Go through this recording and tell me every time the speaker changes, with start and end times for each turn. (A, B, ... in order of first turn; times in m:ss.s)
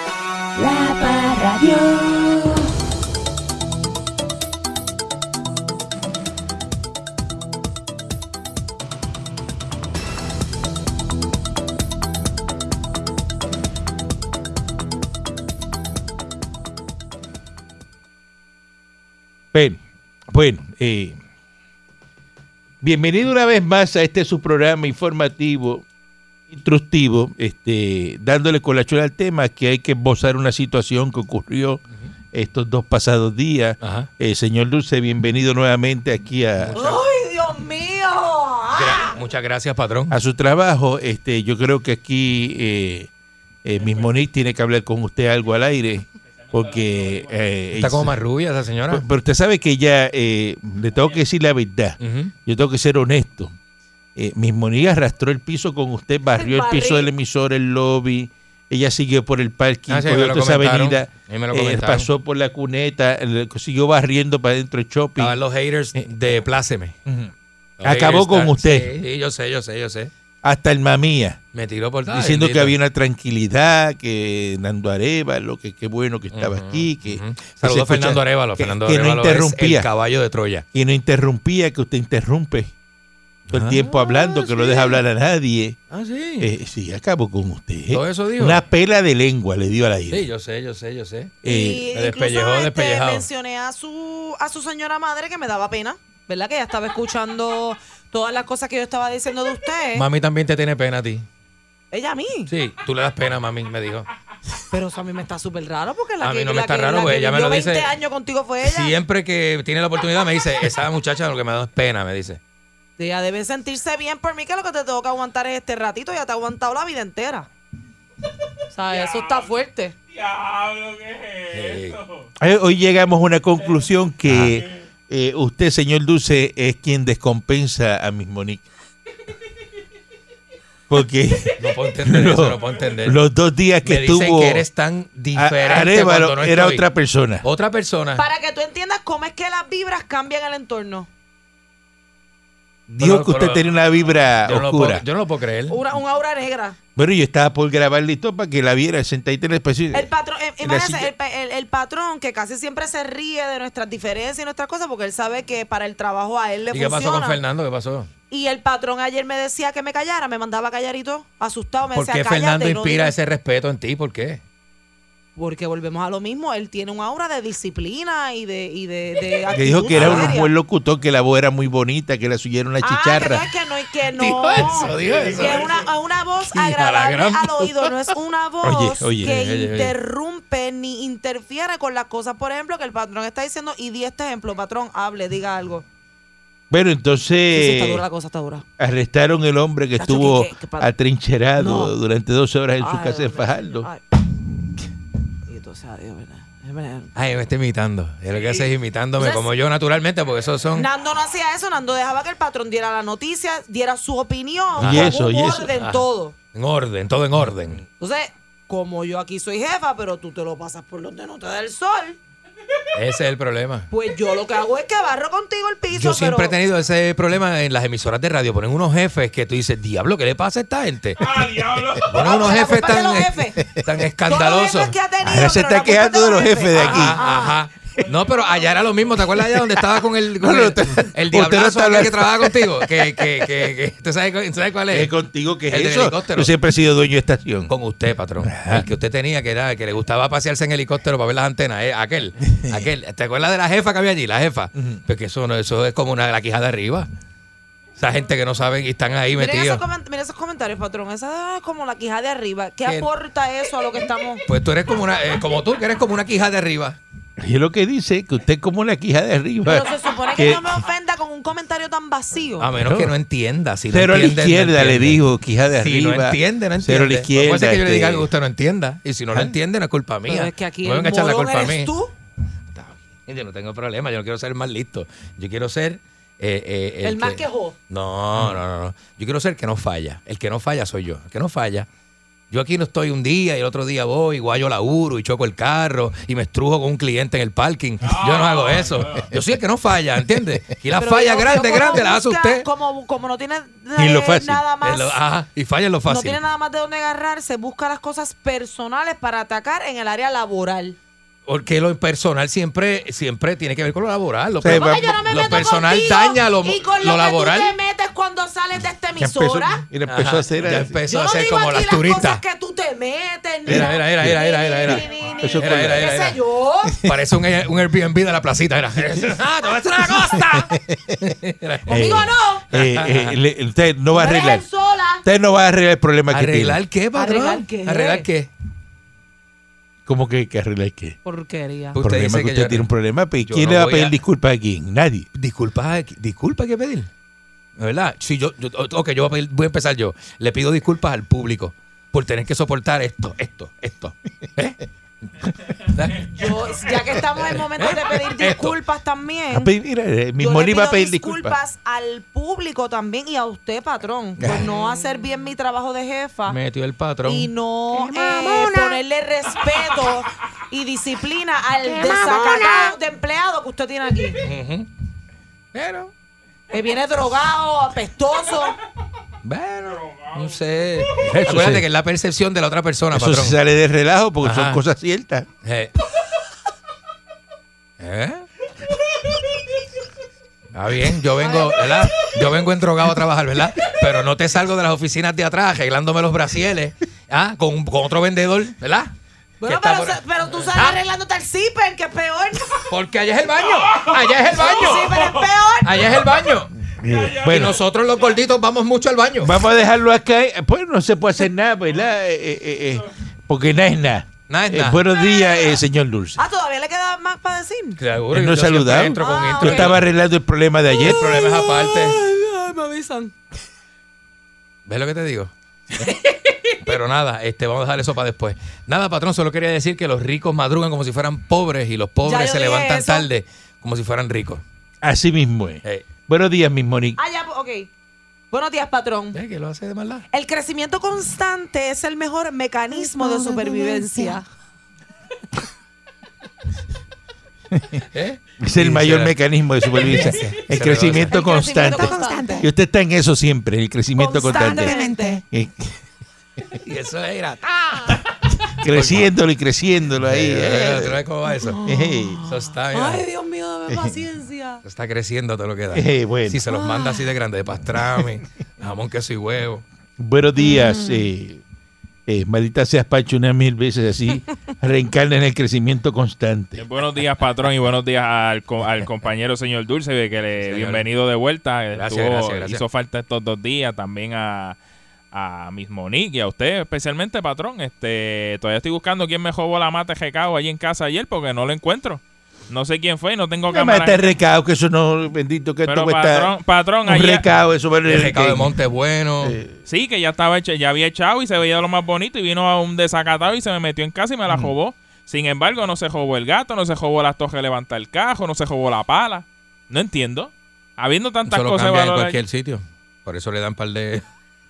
0:00.6-0:02.7 A
0:19.5-0:19.8 B
0:20.3-0:21.2 B
0:22.8-0:25.8 B
0:26.5-0:31.8 B
0:32.3-0:37.0 B
0:33.8-0:34.1 C
0:36.6-0:36.9 C
0:36.7-0:39.1 D
0:38.8-0:40.2 C
0:40.1-0:43.1 B
0:43.6-0:48.2 B
0:47.8-0:49.0 C
0:48.9-0:53.5 B
0:52.0-0:52.3 C
0:54.2-1:05.4 B
0:56.3-0:57.1 D
0:59.9-1:02.1 C
1:05.2-1:06.9 C
1:07.0-1:08.9 B
1:07.8-1:10.1 C
1:10.4-1:11.4 B
1:11.5-1:12.7 C
1:12.1-1:19.9 B
1:16.3-1:20.7 C
1:20.7-1:22.7 B
1:23.5-1:23.9 C
1:23.5-1:25.8 B
1:24.0-1:24.7 D
1:25.9-1:26.5 C
1:26.4-1:30.3 B
1:27.9-1:28.6 C
1:30.1-1:31.4 C
1:31.4-1:31.9 B
1:31.4-1:40.0 D
1:31.9-1:33.3 C
1:39.9-1:41.2 C
1:41.9-1:42.5 D
1:42.5-1:44.1 C
1:44.7-1:49.0 D
1:46.2-1:47.9 C
1:48.6-1:52.4 C
1:53.0-1:57.5 D
1:58.7-1:59.9 D
1:58.9-1:59.3 E
2:00.1-2:02.2 E
2:01.5-2:02.0 C
2:02.4-2:08.6 B
2:04.3-2:04.5 C
2:10.9-2:14.7 B
2:11.6-2:13.2 C
2:13.8-2:16.8 C
2:15.3-2:17.4 B
2:17.4-2:18.2 C
2:18.2-2:21.1 D
2:22.9-2:25.0 B
2:23.0-2:23.7 C
2:24.4-2:25.8 C
2:25.7-2:26.8 D
2:27.0-2:30.1 B
2:29.9-2:37.4 D
2:30.6-2:31.1 B
2:36.7-2:38.1 C
2:38.3-2:43.1 D
2:41.9-2:44.4 C
2:45.4-2:50.5 D
2:49.5-2:53.4 B
2:49.9-2:50.3 C
2:52.8-3:05.8 D
2:54.1-2:55.9 C
2:55.1-2:55.6 B
2:56.5-2:58.1 C
2:58.6-2:59.4 B
2:59.2-2:59.9 C
3:06.7-3:08.0 B
3:07.5-3:08.6 D
3:08.8-3:13.9 B
3:10.0-3:10.9 D
3:11.6-3:11.9 D
3:12.8-3:14.0 D
3:15.5-3:17.1 D
3:17.1-3:20.9 C
3:19.2-3:19.5 D
3:20.8-3:26.3 D
3:24.8-3:25.1 C
3:24.8-3:25.8 B
3:25.8-3:27.8 C
3:28.0-3:32.2 D
3:32.9-3:33.9 C
3:33.9-3:36.5 D
3:35.9-3:44.9 C
3:41.4-3:41.9 E
3:42.1-3:43.7 D
3:44.2-3:47.6 D
3:45.2-3:47.2 B
3:46.8-3:55.1 C
3:49.2-3:53.5 B
3:54.9-3:57.7 B
3:55.7-3:56.5 C
3:57.7-4:07.1 C
3:58.4-3:58.9 B
4:08.0-4:09.8 C
4:09.3-4:14.4 D
4:14.5-4:17.0 C
4:17.4-4:20.6 B
4:19.7-4:22.7 D
4:22.6-4:25.2 C
4:22.8-4:23.2 B
4:23.9-4:28.3 B
4:25.8-4:31.9 C
4:30.3-4:32.1 D
4:32.7-4:41.9 C
4:37.0-4:37.8 D
4:42.5-4:52.7 C
4:51.0-4:55.2 D
4:54.0-4:54.6 B
4:54.8-4:56.4 C
4:56.1-5:01.0 D
5:01.5-5:07.7 C
5:04.6-5:05.1 B
5:04.7-5:09.8 D
5:09.2-5:10.9 B
5:10.1-5:12.4 C
5:11.1-5:17.0 D
5:13.7-5:16.1 B
5:13.7-5:15.0 C
5:15.6-5:16.4 C
5:17.0-5:23.4 C
5:20.5-5:21.2 B
5:21.9-5:24.6 B
5:21.9-5:22.7 D
5:24.1-5:25.2 D
5:25.2-5:26.8 B
5:26.3-5:28.5 C
5:27.2-5:28.2 D
5:30.1-5:31.2 B
5:31.2-5:32.0 D
5:31.9-5:32.9 C
5:32.0-5:35.3 B
5:33.4-5:34.2 C
5:35.4-5:37.1 C
5:37.8-5:48.8 C
5:46.3-5:49.7 D
5:49.5-5:51.6 B
5:50.4-5:56.6 D
5:54.4-5:54.7 B
5:56.5-5:57.5 C
5:57.2-6:04.4 D
5:57.9-5:59.0 A
6:01.8-6:03.0 A
6:04.4-6:04.9 C
6:05.7-6:06.1 C
6:06.7-6:08.8 D
6:09.4-6:13.6 C
6:10.0-6:10.6 E
6:11.2-6:11.9 B
6:13.1-6:15.5 B
6:14.4-6:14.8 C
6:15.6-6:15.9 C
6:18.0-6:18.5 C
6:20.7-6:29.1 C
6:21.4-6:22.1 D
6:29.6-6:32.9 D
6:29.6-6:31.0 C
6:32.9-6:35.3 C
6:34.5-6:36.0 D
6:35.8-6:36.7 C
6:36.9-6:37.8 B
6:37.4-6:39.6 C
6:39.4-6:46.4 B
6:44.5-6:45.0 C
6:45.1-6:45.8 D
6:46.4-6:48.0 D
6:48.0-6:50.0 C
6:48.3-6:51.4 B
6:49.2-6:49.9 D
6:51.0-6:53.3 D
6:51.0-6:52.2 C
6:54.9-6:56.2 C
6:56.7-7:04.6 C
7:02.2-7:03.3 D
7:05.0-7:07.2 B
7:07.2-7:07.9 D
7:08.5-7:09.4 D
7:09.3-7:10.2 C
7:10.3-7:14.4 D
7:12.9-7:14.4 A
7:17.7-7:18.0 B
7:18.1-7:19.4 C
7:18.6-7:25.0 B
7:19.9-7:21.3 C
7:21.3-7:22.7 D
7:21.9-7:22.7 A
7:24.2-7:25.4 D
7:24.5-7:25.4 A
7:25.5-7:26.0 B
7:26.8-7:28.2 C
7:28.8-7:31.2 B
7:28.8-7:29.3 C
7:30.2-7:31.8 C
7:31.6-7:34.8 D
7:31.8-7:32.4 B
7:32.5-7:33.2 C
7:33.9-7:34.2 B
7:34.8-7:39.8 C
7:35.9-7:36.6 B
7:36.7-7:37.2 D
7:40.2-7:41.6 B
7:40.6-7:41.2 D
7:42.3-7:46.8 B
7:46.8-7:54.8 E
7:50.6-7:51.0 C
7:51.9-7:52.8 C
7:55.3-8:04.3 E
8:03.7-8:08.7 B
8:05.9-8:07.4 E
8:08.1-8:09.6 C
8:09.4-8:09.8 B
8:09.9-8:22.4 E
8:21.5-8:24.2 C